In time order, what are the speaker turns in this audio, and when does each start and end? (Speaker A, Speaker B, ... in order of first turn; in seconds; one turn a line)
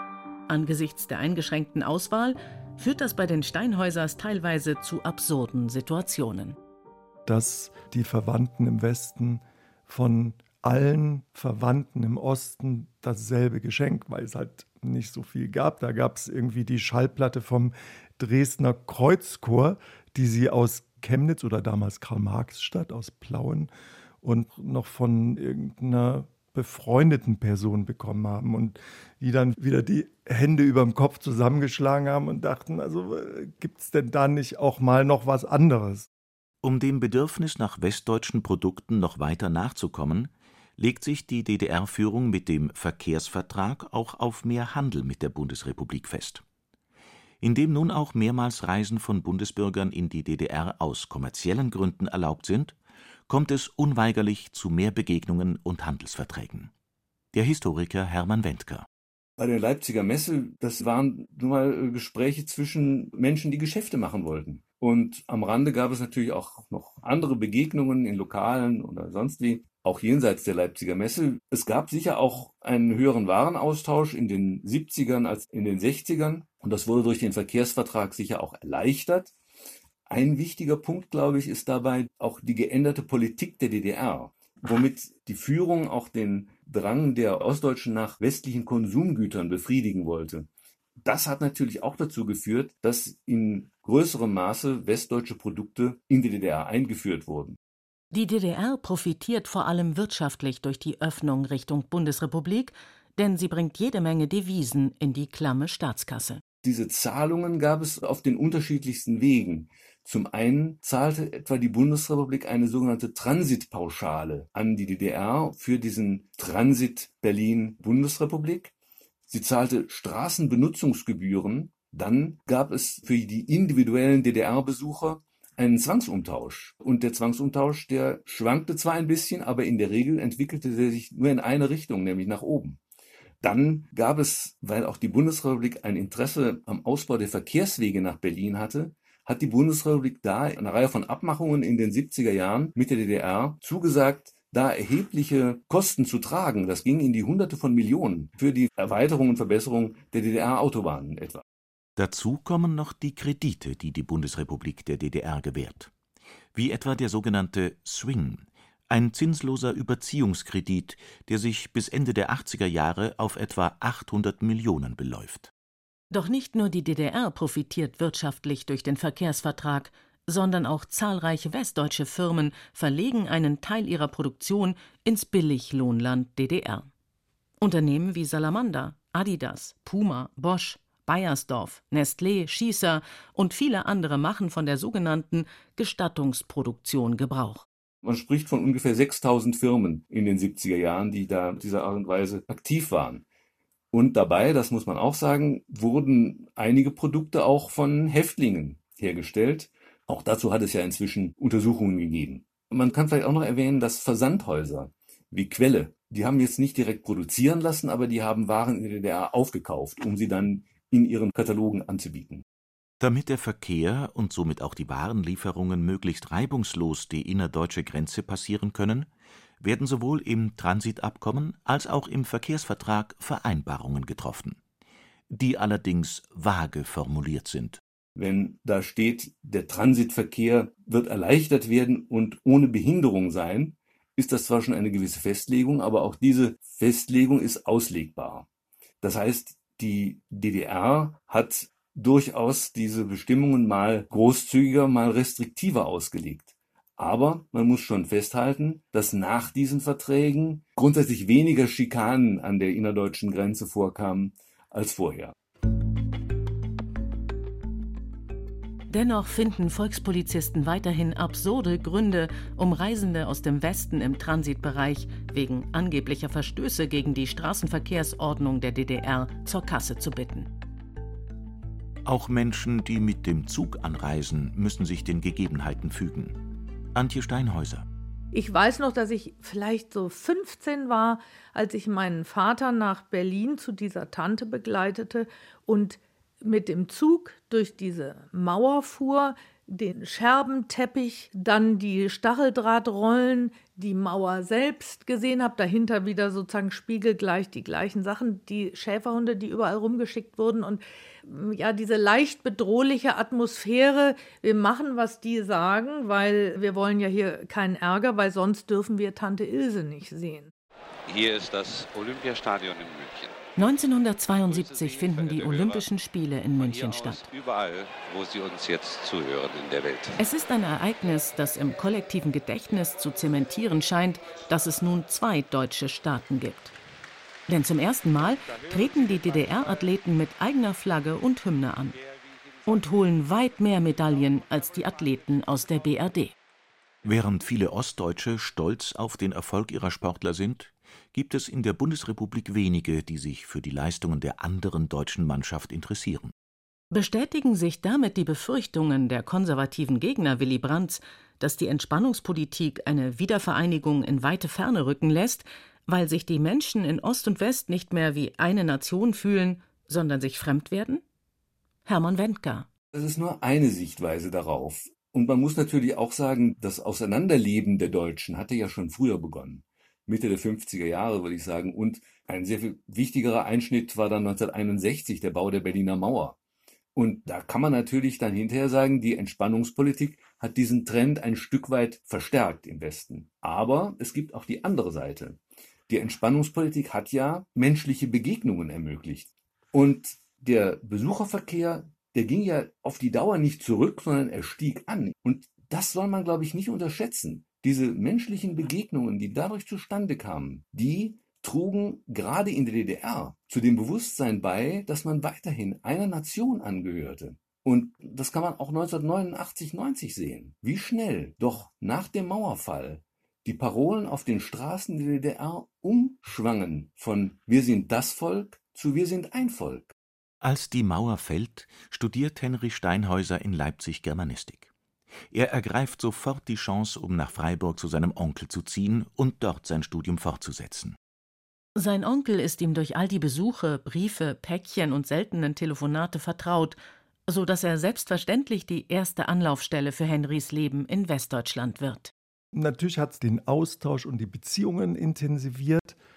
Speaker A: 0.5-6.6
Speaker B: 7.3-23.7
Speaker B: 24.2-36.1
Speaker C: 36.6-46.4
Speaker C: 47.4-52.8
Speaker C: 53.3-56.7
Speaker C: 57.3-58.9
Speaker D: 59.4-79.3
Speaker D: 80.1-90.5
Speaker D: 91.0-97.6
Speaker A: 98.1-106.4
Speaker D: 106.6-118.7
Speaker D: 119.3-132.8
Speaker D: 133.4-151.4
Speaker C: 152.0-155.9
Speaker C: 156.5-165.5
Speaker A: 166.1-176.9
Speaker A: 177.6-187.7
Speaker D: 188.0-193.2
Speaker D: 193.9-212.4
Speaker C: 213.0-224.6
Speaker C: 225.3-227.8
Speaker D: 228.2-238.5
Speaker D: 239.0-255.3
Speaker A: 258.9-270.5
Speaker C: 272.1-276.4
Speaker C: 276.9-277.9
Speaker E: 278.3-310.5
Speaker F: 311.1-313.4
Speaker A: 313.6-317.3
Speaker F: 314.4-315.9
Speaker F: 316.6-320.2
Speaker A: 320.2-326.7
Speaker A: 327.5-332.0
Speaker F: 328.7-329.7
Speaker A: 332.7-336.3
Speaker F: 334.8-335.6
Speaker C: 337.0-346.3
Speaker A: 346.9-361.0
Speaker A: 361.9-362.7
Speaker D: 362.9-376.4
Speaker D: 376.9-419.9
Speaker C: 420.4-424.7
Speaker C: 425.3-431.0
Speaker A: 431.8-436.8
Speaker A: 437.3-442.1
Speaker B: 442.5-446.0